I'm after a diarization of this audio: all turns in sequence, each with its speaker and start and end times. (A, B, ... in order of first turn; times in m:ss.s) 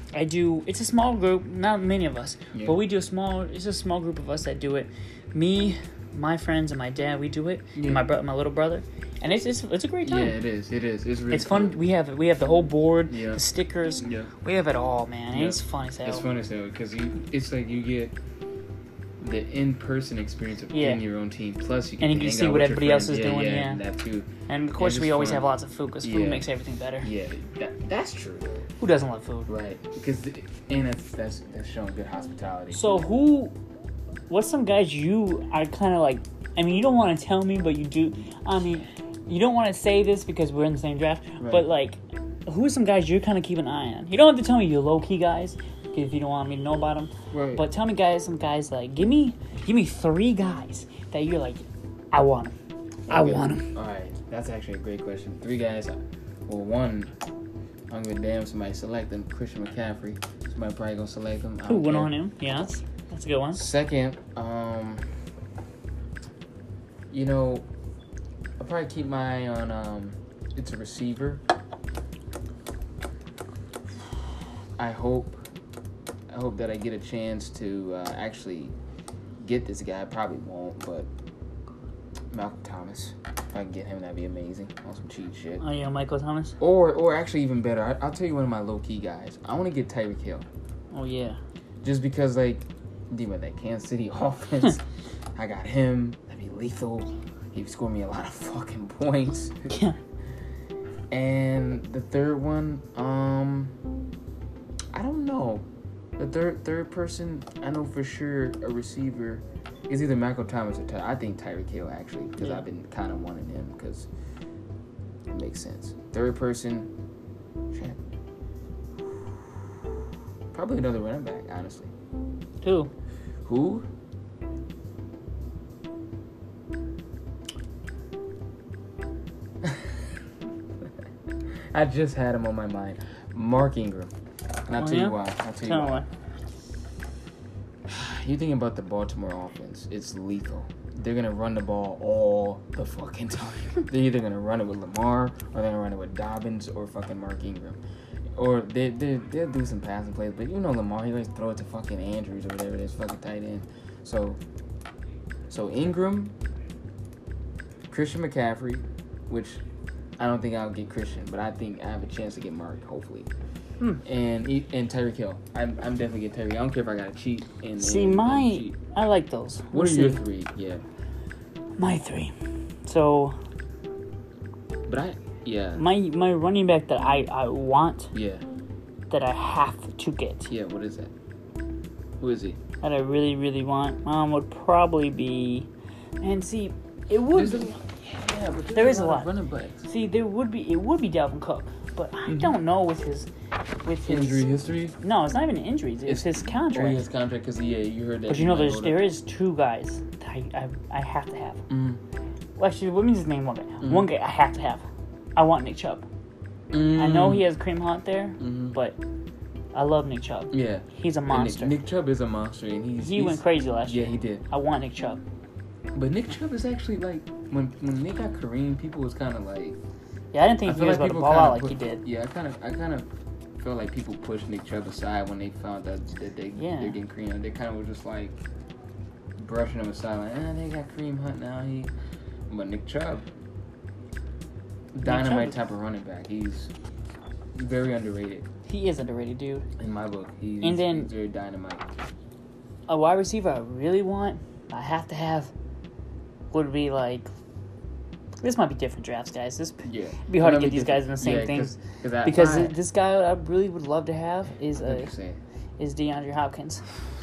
0:00.1-0:10.4 A
0:02.5-0:02.8 B
0:07.7-0:08.1 B
0:10.0-0:11.8 B
0:11.3-0:16.2 A
0:13.1-0:13.4 B
0:14.0-0:14.3 B
0:15.3-0:18.2 B
0:19.2-0:25.5 B
0:20.7-0:21.0 A
0:22.0-0:23.8 A
0:24.5-0:27.1 A
0:26.0-0:26.5 B
0:27.0-0:28.7 B
0:28.8-0:29.5 A
0:29.5-0:33.0 B
0:32.7-0:33.5 A
0:34.3-0:52.5 A
0:41.4-0:41.6 B
0:47.3-0:47.6 B
0:53.1-0:53.7 A
0:53.1-0:57.1 B
0:57.9-1:02.1 B
1:01.6-1:03.6 A
1:03.5-1:05.0 B
1:07.1-1:07.7 B
1:08.6-1:11.4 B
1:14.8-1:15.4 B
1:16.3-1:18.7 B
1:19.4-1:21.1 B
1:22.3-1:25.6 B
1:25.6-1:26.6 A
1:26.6-1:30.4 B
1:30.9-1:31.4 A
1:31.8-1:34.8 B
1:35.4-1:39.7 B
1:39.7-1:40.0 A
1:41.1-1:43.8 B
1:44.9-1:45.6 B
1:46.2-1:54.1 B
1:55.3-1:56.9 B
1:57.7-1:58.0 B
2:00.5-2:01.9 B
2:02.6-2:02.9 A
2:03.4-2:03.9 B
2:09.6-2:10.0 B
2:11.7-2:14.1 B
2:14.6-2:16.0 B
2:14.8-2:16.0 A
2:17.8-2:27.8 B
2:28.3-2:34.4 B
2:35.5-2:36.3 B
2:37.9-2:39.6 B
2:40.2-2:43.3 B
2:44.0-2:48.7 B
2:47.8-2:50.2 A
2:49.7-2:50.8 B
2:51.8-2:52.3 A
2:52.8-2:53.4 A
2:54.9-2:55.8 B
2:55.8-2:58.1 A
2:58.1-2:58.4 B
2:59.1-3:00.5 A
3:00.5-3:01.1 B
3:02.2-3:02.6 B
3:02.8-3:05.7 A
3:06.2-3:07.7 A
3:07.3-3:09.9 B
3:08.7-3:09.3 A
3:09.8-3:13.3 A
3:12.2-3:12.5 B
3:13.8-3:14.4 A
3:14.0-3:15.0 B
3:15.0-3:17.0 A
3:16.0-3:19.0 B
3:18.3-3:21.6 A
3:21.7-3:22.0 B
3:22.6-3:24.8 A
3:23.8-3:24.1 B
3:25.4-3:26.0 A
3:26.7-3:27.5 B
3:26.9-3:29.0 A
3:28.4-3:28.8 B
3:29.7-3:31.8 A
3:30.5-3:34.4 B
3:33.0-3:35.2 A
3:35.9-3:39.8 B
3:40.3-3:42.0 A
3:40.6-3:48.4 B
3:46.6-3:47.0 A
3:49.4-3:51.9 B
3:52.5-3:53.3 B
3:54.9-3:56.7 B
3:55.0-3:55.6 A
3:57.5-3:58.5 B
3:58.6-3:59.6 A
3:59.8-4:01.9 B
4:00.6-4:01.1 A
4:02.9-4:05.5 A
4:06.5-4:07.3 A
4:08.4-4:15.1 A
4:09.8-4:12.8 B
4:14.8-4:15.4 B
4:15.8-4:16.8 A